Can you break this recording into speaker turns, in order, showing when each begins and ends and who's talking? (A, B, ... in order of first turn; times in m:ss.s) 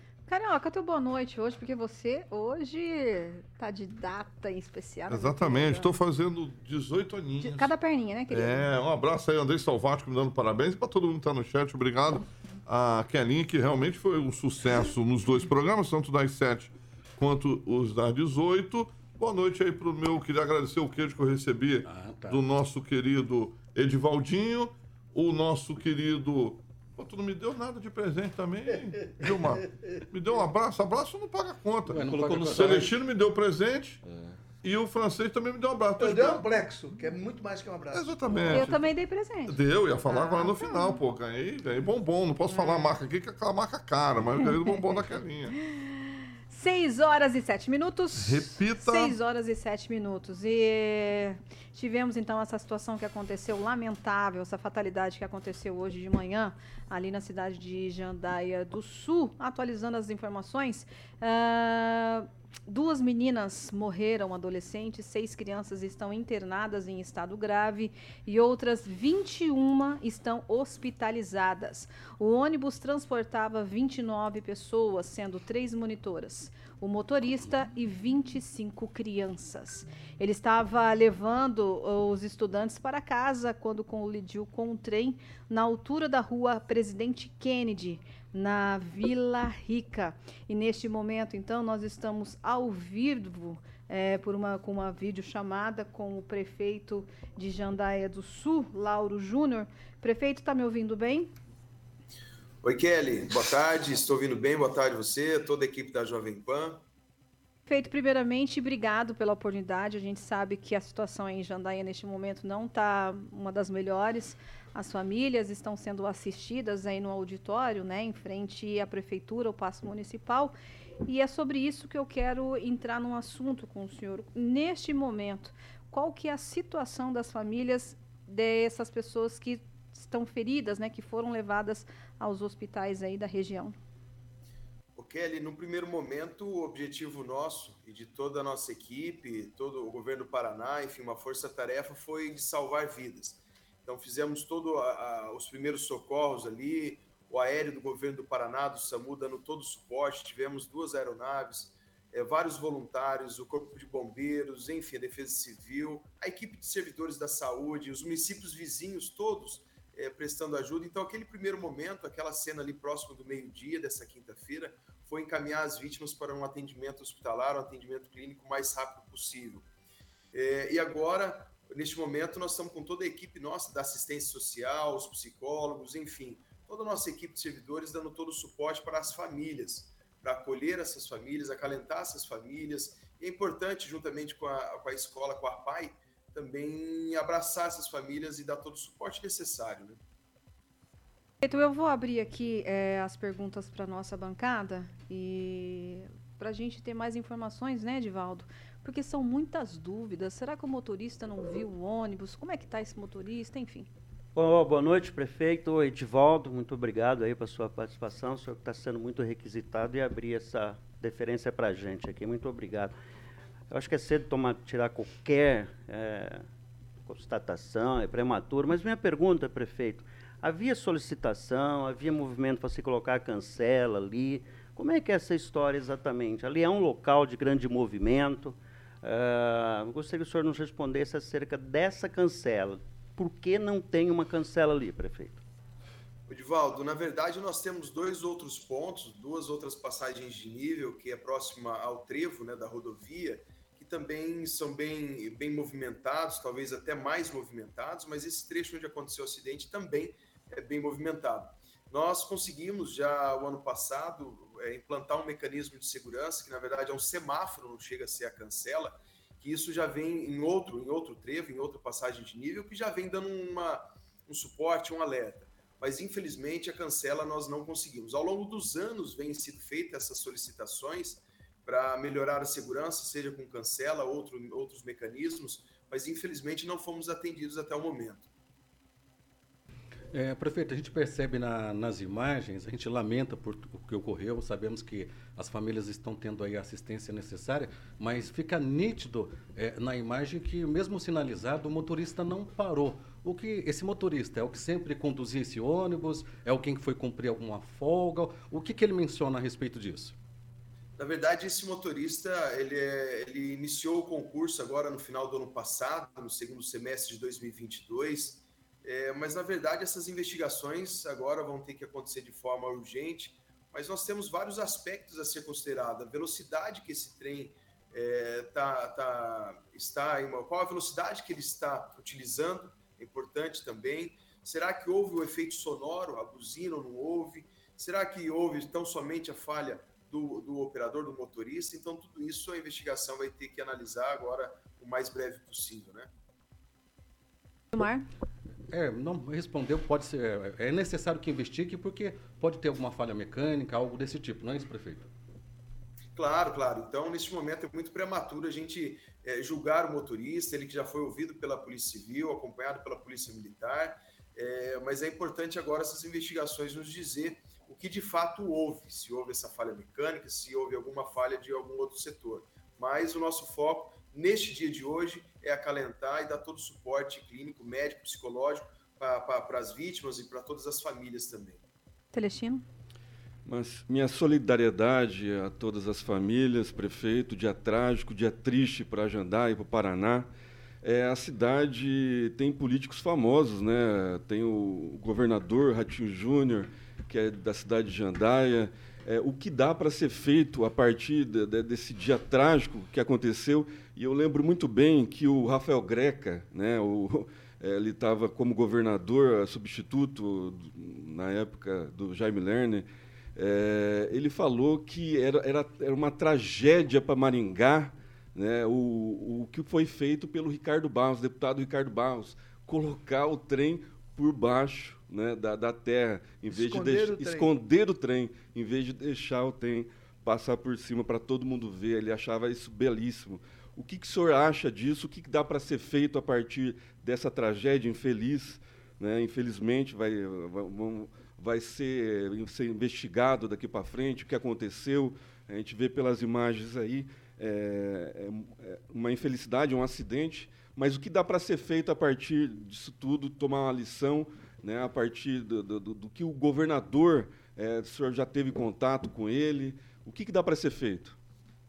0:00.3-0:05.9 A
0:05.1-0:07.7 B
0:07.4-0:08.7 A
0:08.3-0:34.0 B
0:21.8-0:22.4 C
0:29.2-0:30.0 D
0:31.9-0:32.9 C
0:32.0-0:32.9 E
0:34.0-0:34.3 E
0:34.6-0:36.4 B
0:36.0-0:38.6 D
0:37.9-0:38.7 B
0:38.4-0:41.0 A
0:39.5-0:45.5 B
0:42.5-0:42.9 A
0:45.7-0:45.9 A
0:46.5-1:41.3 A
0:48.2-0:49.2 B
1:42.6-1:46.8 F
1:47.7-2:00.5 A
2:01.0-2:13.8 A
2:15.0-2:49.6 F
2:50.3-3:10.0 F
3:11.4-3:23.9 A
3:24.3-3:33.0 G
3:33.7-3:36.5 G
3:37.0-3:55.4 G
3:56.3-4:38.3 F
4:40.1-5:00.2 C
5:01.0-5:36.1 F
5:37.7-5:38.1 A
5:38.7-5:45.1 C
5:46.1-6:11.6 F
6:12.1-6:12.6 A
6:13.4-6:20.3 E
6:20.8-7:31.2 E
6:56.5-6:57.5 D